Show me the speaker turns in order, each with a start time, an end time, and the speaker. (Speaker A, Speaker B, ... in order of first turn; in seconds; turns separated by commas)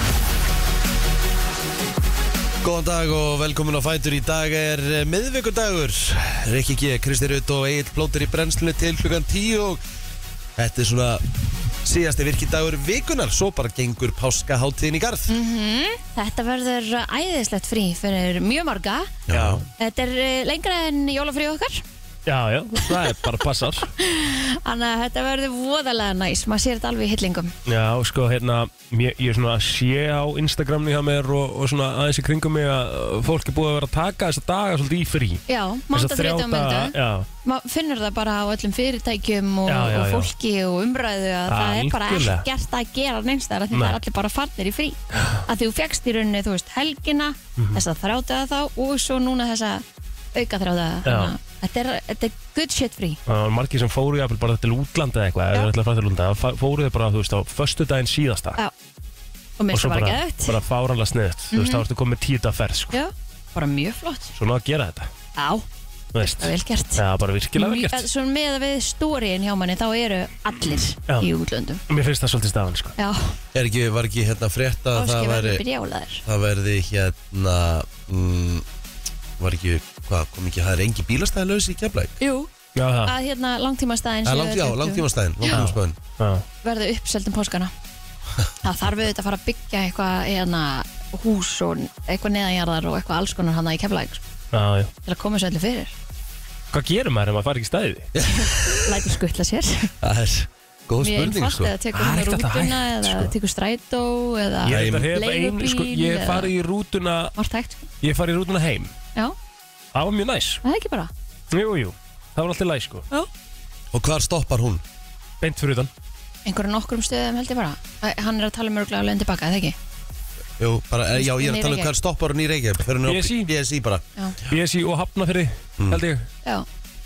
Speaker A: 2.6-9.8, Speaker A: 10.6-11.2, Speaker A: 11.8-15.3, Speaker B: 15.3-19.1, Speaker A: 19.3-19.6, Speaker C: 19.3-19.6, Speaker B: 19.8-21.8, Speaker C: 22.2-23.9, Speaker B: 24.0-27.5, Speaker C: 27.6-37.3, Speaker B: 35.5-53.2, Speaker C: 39.7-40.3, Speaker C: 41.5-42.5, Speaker C: 43.7-44.0, Speaker C: 51.0-51.3, Speaker C: 53.3-58.6, Speaker B: 59.6-60.6, Speaker C: 59.7-63.0, Speaker B: 61.5-61.8, Speaker B: 62.9-64.3, Speaker C: 64.3-65.1, Speaker B: 65.4-65.7, Speaker C: 66.1-68.1, Speaker B: 66.2-67.0, Speaker B: 67.5-71.8, Speaker C: 71.9-72.9, Speaker B: 73.0-73.4, Speaker A: 73.5-75.6, Speaker B: 74.9-76.2, Speaker A: 76.2-78.6, Speaker A: 79.4-82.2, Speaker B: 82.2-82.5, Speaker C: 82.8-83.1, Speaker B: 83.0-85.7, Speaker A: 84.2-86.0, Speaker C: 85.5-86.4, Speaker B: 86.6-87.7, Speaker B: 88.6-94.2, Speaker C: 94.5-94.9, Speaker B: 95.0-95.9, Speaker C: 96.7-98.1, Speaker A: 98.1-98.9, Speaker B: 98.3-99.9, Speaker A: 100.0-101.7, Speaker B: 101.0-106.5, Speaker C: 101.9-103.3, Speaker C: 104.6-107.3, Speaker A: 104.7-105.1, Speaker B: 107.4-107.9, Speaker C: 108.0-108.9, Speaker C: 109.9-110.6, Speaker B: 110.6-111.1, Speaker C: 111.5-113.0, Speaker A: 113.9-114.8, Speaker C: 115.4-115.9, Speaker B: 116.5-119.8, Speaker A: 120.6-124.0, Speaker B: 121.1-121.9, Speaker C: 123.0-123.5, Speaker C: 124.5-126.3